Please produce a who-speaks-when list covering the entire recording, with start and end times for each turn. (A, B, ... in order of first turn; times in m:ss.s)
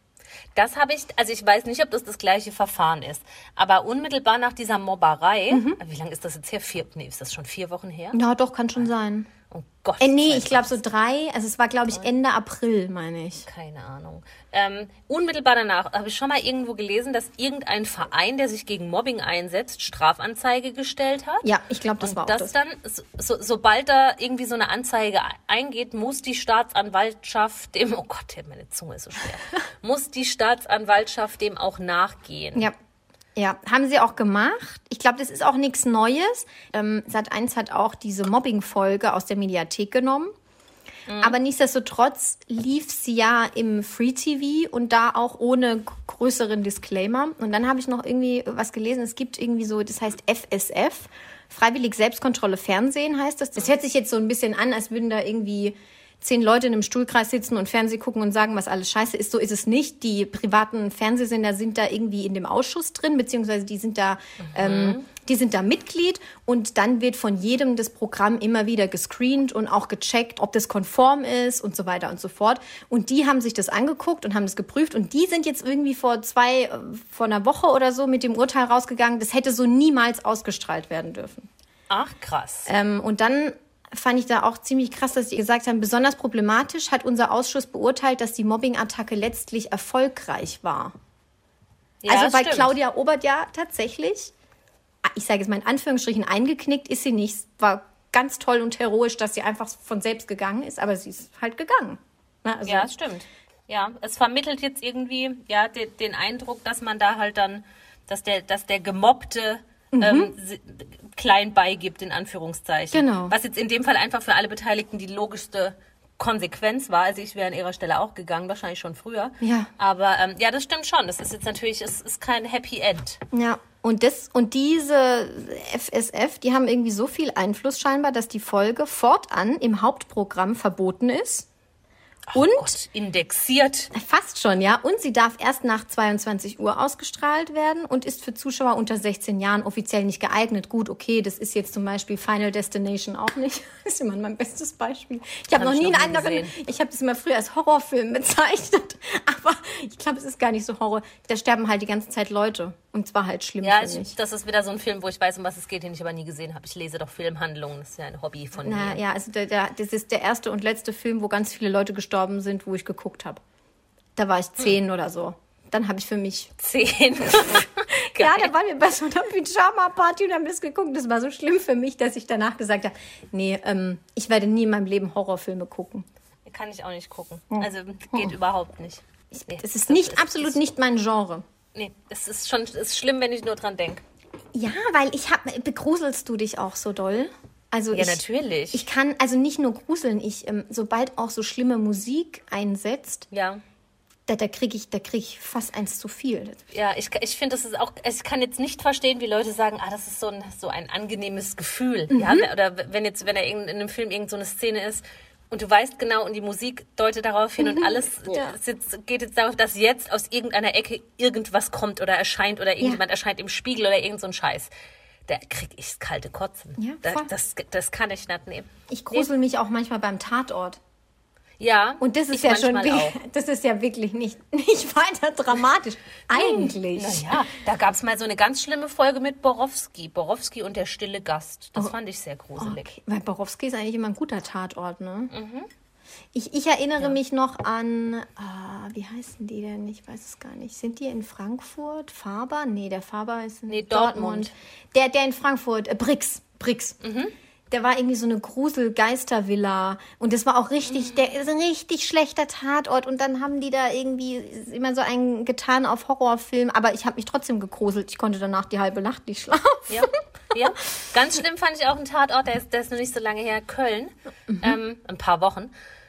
0:00.5-0:08.2 A
0:05.5-0:05.8 B
0:08.1-0:09.3 B
0:09.5-0:10.8 A
0:10.0-0:13.4 B
0:13.4-0:21.4 A
0:21.4-0:22.5 B
0:22.0-0:32.7 A
0:33.4-0:40.3 B
0:41.1-0:41.4 A
0:41.2-1:21.5 B
1:04.5-1:05.0 A
1:21.9-1:22.7 A
1:22.6-1:30.9 B
1:32.0-1:32.7 A
1:32.1-1:34.3 B
1:35.0-1:42.9 B
1:42.6-2:03.2 A
1:49.9-1:50.3 B
1:52.9-1:53.3 B
1:59.4-1:59.7 B
2:03.3-2:11.5 B
2:12.3-2:13.9 A
2:12.3-2:12.7 B
2:13.9-2:34.1 B
2:25.5-2:26.5 A
2:33.6-2:39.0 A
2:38.6-2:43.4 B
2:44.2-2:46.5 B
2:46.6-2:48.5 A
2:48.1-2:56.0 B
2:56.4-3:00.6 A
2:57.5-2:58.3 B
2:59.3-3:01.4 B
3:01.7-3:04.0 A
3:04.5-3:08.2 B
3:07.9-3:08.8 A
3:08.7-3:13.3 B
3:13.3-3:13.6 A
3:14.3-3:16.6 B
3:16.7-3:34.7 A
3:22.1-3:22.5 B
3:27.6-3:28.6 B
3:35.3-3:39.3 A
3:36.8-3:37.3 B
3:38.9-3:40.8 B
3:41.6-3:43.2 A
3:42.0-3:47.3 B
3:46.3-3:52.9 A
3:52.6-3:55.3 B
3:55.3-3:55.7 A
3:56.3-4:07.0 B
4:03.7-4:04.5 A
4:07.0-4:07.3 A
4:07.7-4:20.1 B
4:19.9-4:25.7 A
4:24.5-4:24.8 B